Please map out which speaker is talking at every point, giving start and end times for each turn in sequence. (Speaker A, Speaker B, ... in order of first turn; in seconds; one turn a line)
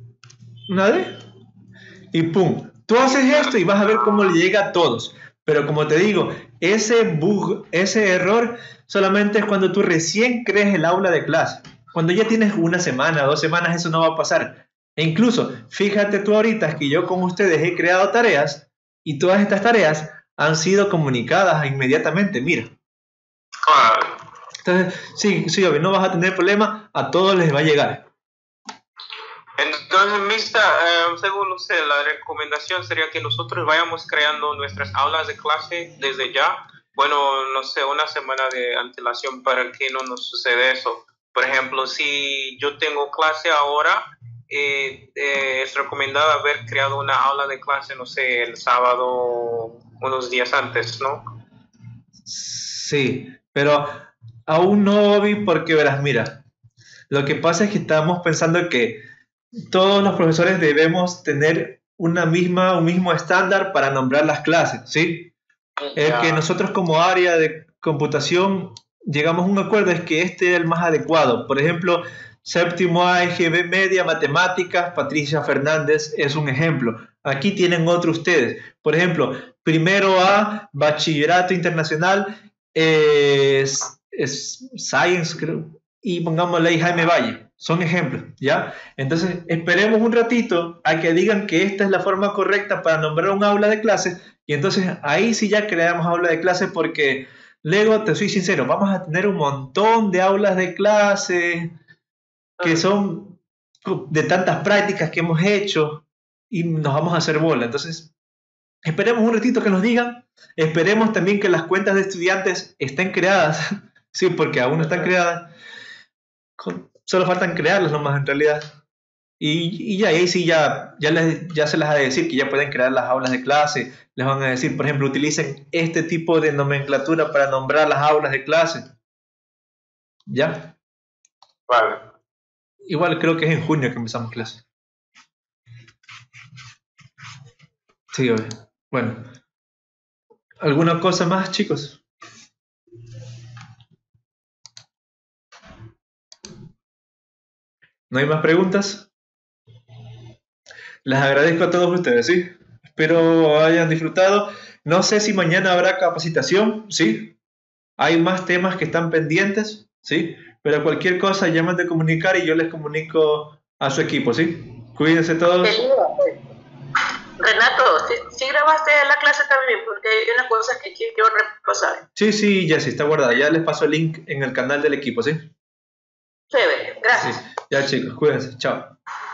Speaker A: 0.7-1.2
Speaker A: 2.1-22.7
Speaker B: 23.6-24.1
Speaker A: 24.6-28.1
Speaker B: 29.6-51.2
Speaker A: 52.3-56.4
Speaker A: 57.1-59.0
Speaker A: 59.7-65.3
Speaker B: 65.8-66.5
Speaker A: 66.0-101.7
Speaker A: 102.6-108.1
Speaker A: 108.9-115.5
Speaker A: 116.6-118.8
Speaker A: 119.4-128.9
Speaker A: 130.3-130.8
Speaker B: 131.7-132.1
Speaker A: 132.9-134.6
Speaker A: 138.1-139.3
Speaker A: 140.6-142.0
Speaker A: 148.1-149.1
Speaker A: 151.1-157.4
Speaker A: 158.0-165.8
Speaker C: 165.6-166.4
Speaker C: 167.4-172.0
Speaker A: 172.2-175.5
Speaker C: 176.5-177.4
Speaker A: 177.1-178.9